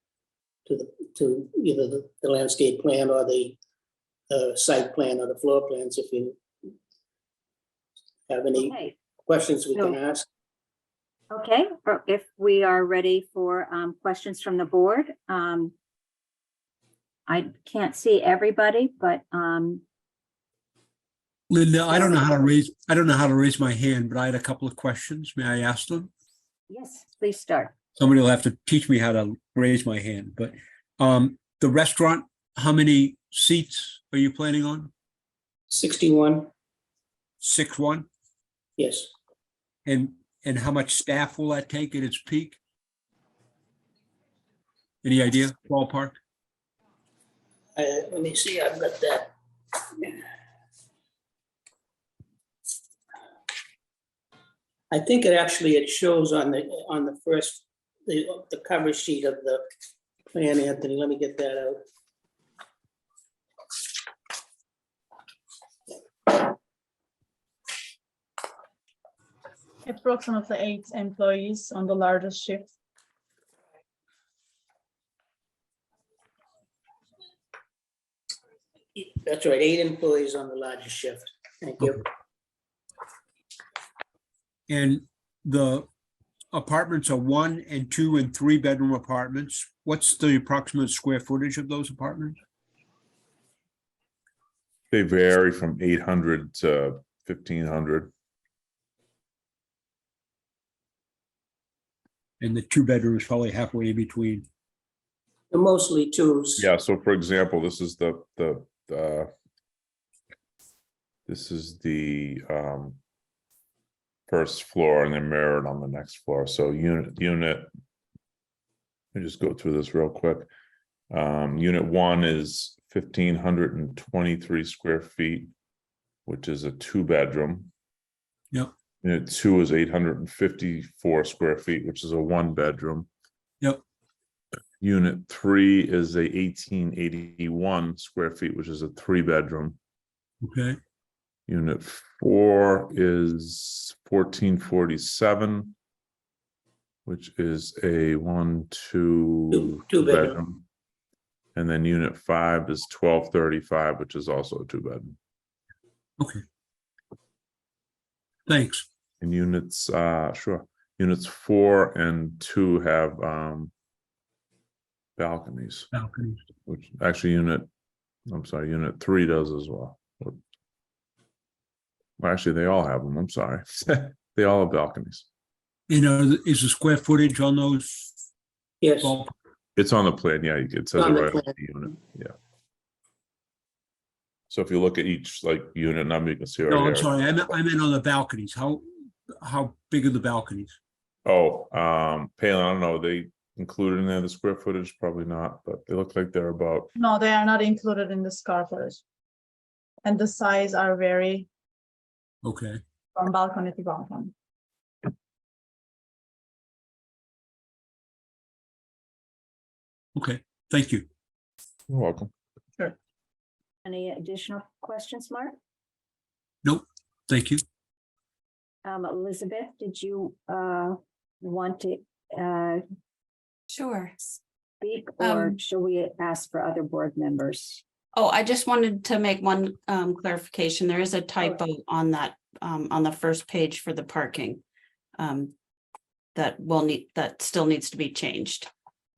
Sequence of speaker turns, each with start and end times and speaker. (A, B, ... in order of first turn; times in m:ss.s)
0:00.7-0:03.6 A
0:04.3-0:06.7 A
0:08.3-0:10.2 A
0:08.5-0:09.0 B
0:11.3-0:15.7 B
0:17.3-0:19.8 B
0:21.5-0:26.1 C
0:26.7-0:27.7 B
0:28.0-0:34.9 C
0:35.7-0:36.5 A
0:37.4-0:38.1 C
0:38.8-0:39.1 A
0:39.8-0:42.6 C
0:45.0-0:46.2 C
0:47.7-0:49.3 A
0:49.9-0:50.2 A
0:54.9-0:59.6 A
1:00.3-1:01.8 A
1:09.8-1:12.7 D
1:19.0-1:22.1 A
1:24.7-1:25.9 C
1:26.5-1:32.4 C
1:34.9-1:38.1 E
1:42.4-1:44.4 C
1:45.5-1:46.7 A
1:46.6-1:49.3 E
1:51.3-1:53.0 E
1:54.3-1:57.7 E
1:59.1-2:00.5 E
2:01.1-2:05.5 E
2:06.2-2:07.7 E
2:09.0-2:13.1 E
2:14.8-2:19.8 E
2:20.4-2:20.8 C
2:21.5-2:25.7 E
2:27.0-2:30.6 E
2:29.5-2:30.4 A
2:31.6-2:35.2 E
2:38.5-2:38.8 C
2:39.2-2:43.7 E
2:45.2-2:45.9 E
2:45.9-2:46.4 C
2:46.7-2:47.7 E
2:48.3-2:50.4 E
2:52.2-2:55.2 E
2:55.9-2:58.1 C
2:58.8-2:59.1 A
2:59.0-2:59.3 C
2:59.8-3:02.3 E
3:01.0-3:01.5 A
3:04.5-3:07.2 E
3:06.7-3:08.8 C
3:09.4-3:10.8 C
3:11.2-3:16.9 E
3:17.0-3:19.0 D
3:20.0-3:21.5 D
3:22.4-3:22.8 C
3:23.2-3:24.3 D
3:30.2-3:31.0 C
3:31.9-3:32.3 E
3:33.8-3:35.6 B
3:36.6-3:37.6 C
3:38.8-3:42.8 B
3:43.7-3:44.4 F
3:44.8-3:47.8 B
3:45.2-3:45.6 F
3:48.1-3:54.6 F
3:55.2-3:55.5 F
3:56.3-3:58.7 F